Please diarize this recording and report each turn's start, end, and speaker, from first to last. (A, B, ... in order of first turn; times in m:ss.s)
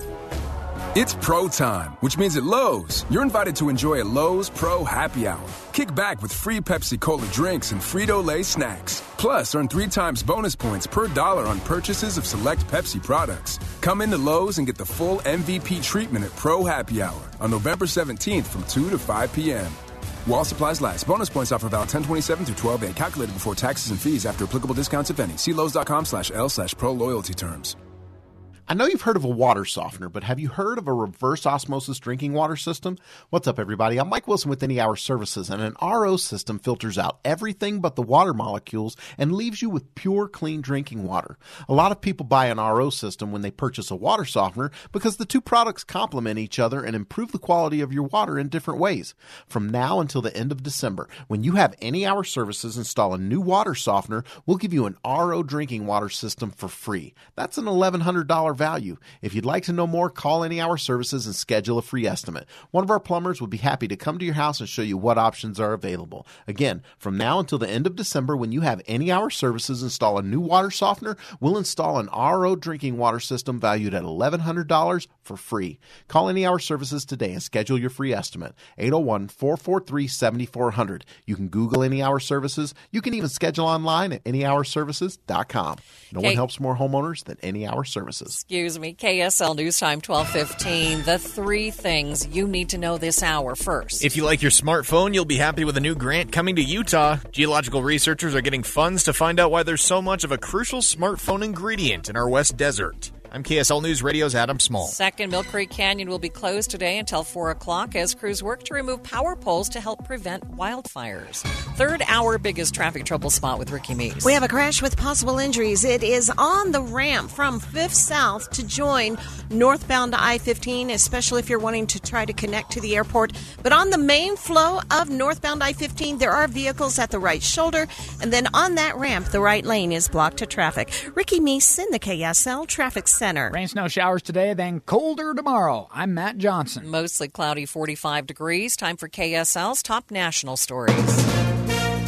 0:00.9-0:27.8 A
0:28.7-1:28.4 B
1:28.3-1:34.1 C
1:34.0-1:44.9 D
1:44.8-1:54.4 C
1:54.2-2:13.5 E
2:13.5-2:16.9 F
2:16.8-2:21.3 C